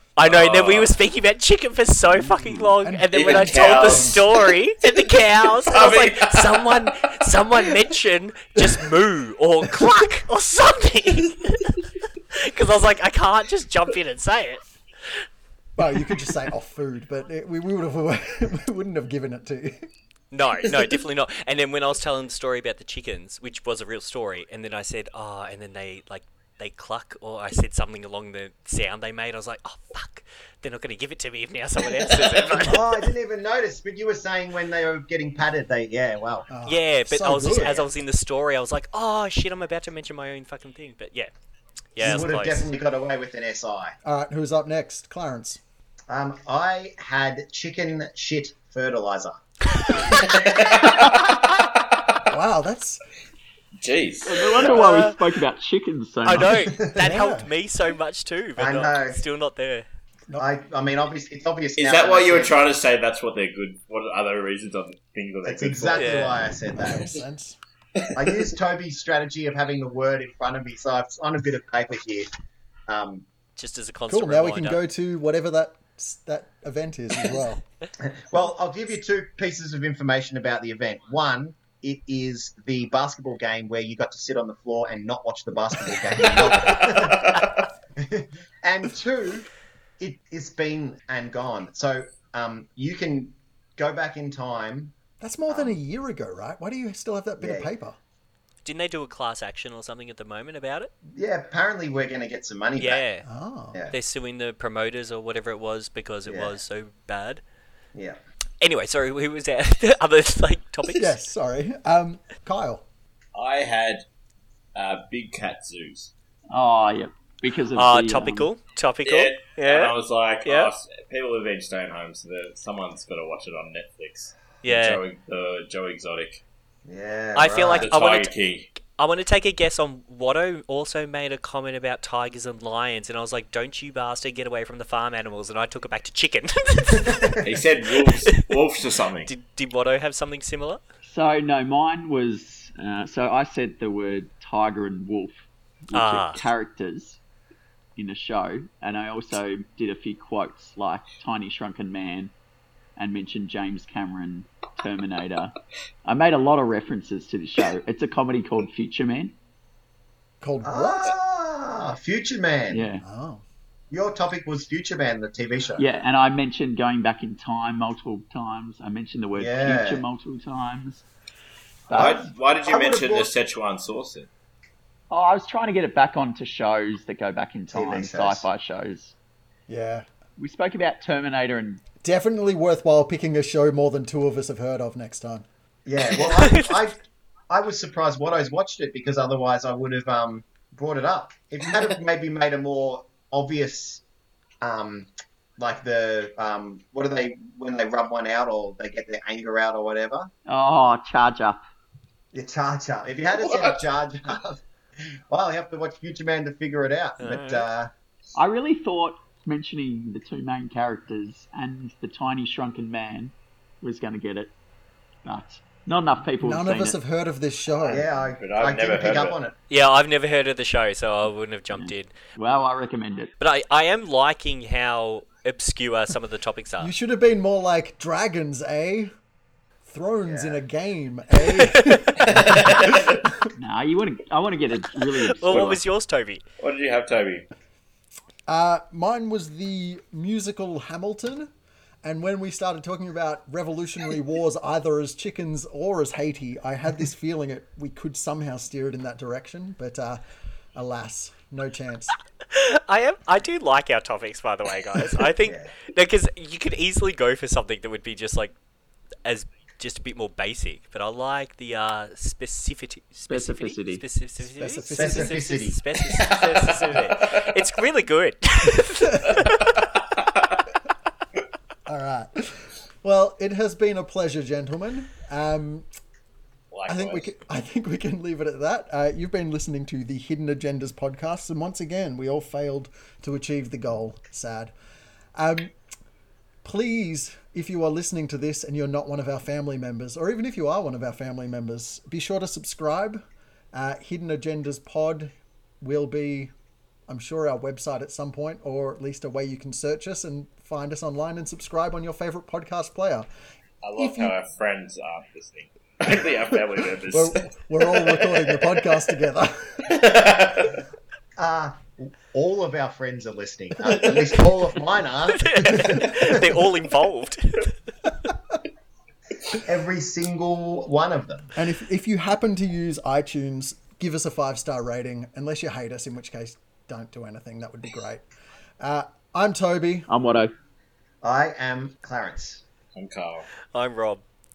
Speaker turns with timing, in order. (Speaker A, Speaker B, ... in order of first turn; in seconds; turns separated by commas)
Speaker A: 0.2-11.8, Speaker B: 0.2-0.9, Speaker C: 2.8-4.2, Speaker B: 3.1-4.5, Speaker B: 5.5-6.7, Speaker A: 12.3-14.7, Speaker C: 15.8-19.9, Speaker A: 20.3-32.9, Speaker D: 32.6-36.5, Speaker C: 36.5-37.9, Speaker A: 36.6-41.3, Speaker A: 41.9-42.7, Speaker C: 42.0-42.6, Speaker D: 42.0-44.0, Speaker C: 44.0-45.6, Speaker D: 46.1-49.4, Speaker B: 50.0-51.7, Speaker C: 52.3-53.0, Speaker B: 53.8-55.1, Speaker E: 54.2-56.7, Speaker A: 54.6-55.1, Speaker A: 56.2-59.9, Speaker D: 56.7-57.0, Speaker C: 57.0-57.5, Speaker D: 58.6-59.2, Speaker D: 60.4-62.6, Speaker B: 61.8-66.2, Speaker D: 65.4-67.1, Speaker A: 66.0-66.4, Speaker C: 66.7-67.6, Speaker D: 68.1-72.3, Speaker D: 72.9-73.2, Speaker A: 73.5-74.8, Speaker C: 74.1-77.6, Speaker D: 78.0-87.5, Speaker B: 86.7-87.5, Speaker D: 88.0-94.9, Speaker C: 95.2-98.0, Speaker D: 95.5-95.8, Speaker D: 97.4-97.7, Speaker A: 98.6-100.9, Speaker D: 101.1-103.0, Speaker A: 102.8-103.2, Speaker C: 103.2-103.8, Speaker A: 103.9-107.4, Speaker D: 106.3-106.6, Speaker D: 107.9-108.2, Speaker A: 108.6-111.2, Speaker C: 110.9-112.8, Speaker B: 113.3-114.0, Speaker B: 114.7-116.1, Speaker E: 116.5-118.5, Speaker A: 117.7-120.7, Speaker B: 119.0-126.4, Speaker A: 124.6-125.0, Speaker D: 126.8-127.9, Speaker A: 127.3-137.3, Speaker B: 127.7-128.7, Speaker D: 137.0-137.4, Speaker B: 137.4-139.3, Speaker A: 138.0-138.5, Speaker A: 139.3-140.8, Speaker E: 141.0-145.3, Speaker E: 145.9-147.2, Speaker A: 145.9-146.4, Speaker E: 147.9-152.3, Speaker E: 153.0-155.5, Speaker E: 156.0-159.3, Speaker C: 160.4-161.2, Speaker D: 160.6-162.8, Speaker E: 162.7-163.0, Speaker C: 163.0-163.4, Speaker D: 163.9-165.8, Speaker E: 165.8-171.1, Speaker D: 169.3-170.0, Speaker E: 171.9-172.2, Speaker B: 171.9-174.3, Speaker D: 171.9-173.3, Speaker E: 175.1-179.1, Speaker D: 177.7-178.4, Speaker C: 179.7-180.1, Speaker E: 180.4-181.8, Speaker C: 182.0-185.4, Speaker D: 185.8-194.0, Speaker A: 186.2-186.6, Speaker D: 194.6-200.3, Speaker E: 200.5-201.6, Speaker D: 202.3-204.6, Speaker B: 203.3-203.8, Speaker D: 205.3-207.9, Speaker A: 207.2-207.7, Speaker E: 208.3-214.5, Speaker E: 215.2-217.0, Speaker C: 216.4-218.1, Speaker D: 217.8-219.5, Speaker B: 217.8-219.4, Speaker A: 219.7-222.1, Speaker E: 221.7-223.3, Speaker A: 223.4-226.9, Speaker C: 226.8-229.1, Speaker C: 229.8-233.5, Speaker D: 230.2-230.6, Speaker A: 231.5-232.2, Speaker B: 232.3-233.0, Speaker E: 233.5-235.8, Speaker A: 235.3-236.4, Speaker B: 235.5-235.8, Speaker B: 236.6-237.5, Speaker C: 238.5-241.5, Speaker C: 242.0-250.2, Speaker C: 250.7-252.1, Speaker A: 252.5-258.5, Speaker D: 255.4-255.7, Speaker A: 259.2-269.8, Speaker E: 263.3-264.0, Speaker C: 264.4-265.4, Speaker D: 264.9-265.8, Speaker B: 266.1-267.4, Speaker C: 271.9-275.9, Speaker B: 276.7-277.2, Speaker C: 276.9-284.7, Speaker C: 285.4-285.7, Speaker C: 286.6-296.5, Speaker C: 297.1-303.3, Speaker B: 303.8-307.5, Speaker C: 304.0-304.3, Speaker C: 307.1-310.0, Speaker B: 308.1-308.3, Speaker B: 309.9-310.7, Speaker D: 311.4-316.6, Speaker A: 315.3-317.7, Speaker D: 319.4-321.5, Speaker C: 321.6-328.2, Speaker C: 328.8-330.1, Speaker E: 330.1-330.5, Speaker D: 331.2-332.6, Speaker B: 332.9-333.5, Speaker A: 333.7-334.2